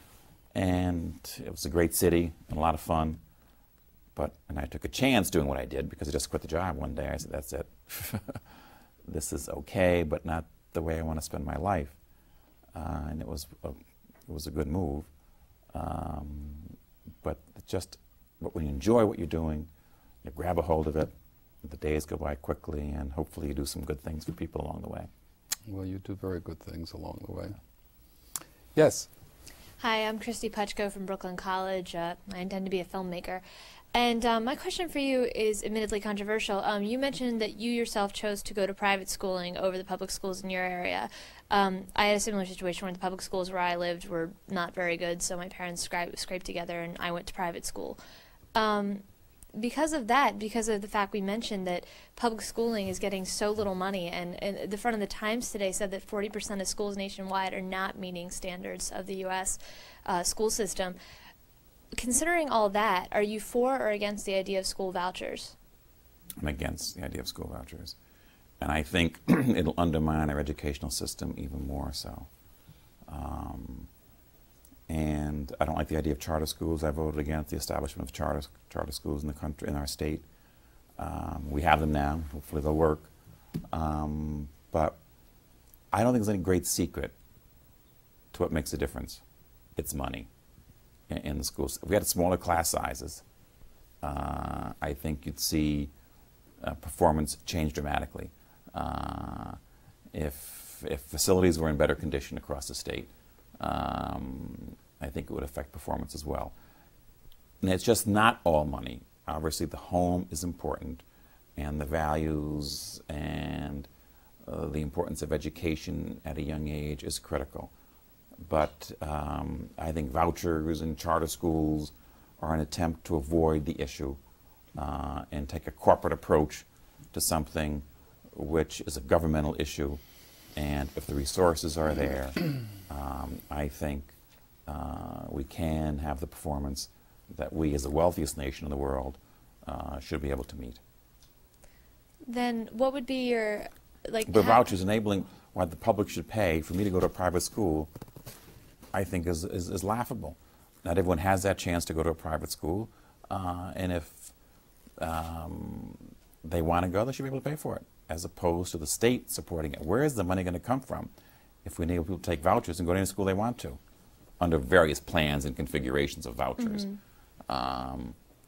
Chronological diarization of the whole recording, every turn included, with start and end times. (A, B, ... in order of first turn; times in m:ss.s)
0:00.5-0:03.2 A
0:04.2-0:08.4 A
0:09.0-0:12.0 A
0:12.7-0:15.1 A
0:15.7-0:19.7 A
0:20.2-0:21.1 A
0:21.6-0:25.1 A
0:25.7-0:27.6 B
0:28.7-0:29.1 B
0:29.8-0:33.4 C
0:33.9-0:48.0 C
0:48.5-0:49.0 C
0:49.5-1:01.0 C
1:01.9-1:05.5 C
1:06.4-1:07.9 A
1:08.6-1:12.3 A
1:13.1-1:13.9 A
1:14.9-1:20.2 A
1:21.0-1:23.1 A
1:23.7-1:25.0 A
1:25.9-1:27.1 A
1:28.3-1:29.2 A
1:29.8-1:30.3 A
1:31.1-1:33.2 A
1:34.0-1:35.9 A
1:36.6-1:39.6 A
1:40.1-1:46.5 A
1:47.6-1:51.0 A
1:51.6-1:53.9 A
1:54.4-1:57.7 A
1:58.4-2:04.2 A
2:04.8-2:10.0 A
2:10.5-2:14.1 A
2:14.7-2:20.8 A
2:22.2-2:24.7 C
2:24.2-2:27.9 A
2:28.9-2:34.3 A
2:35.0-2:41.1 A
2:41.6-2:43.8 A
2:44.4-2:46.9 A
2:46.6-2:47.0 C
2:47.5-2:48.2 A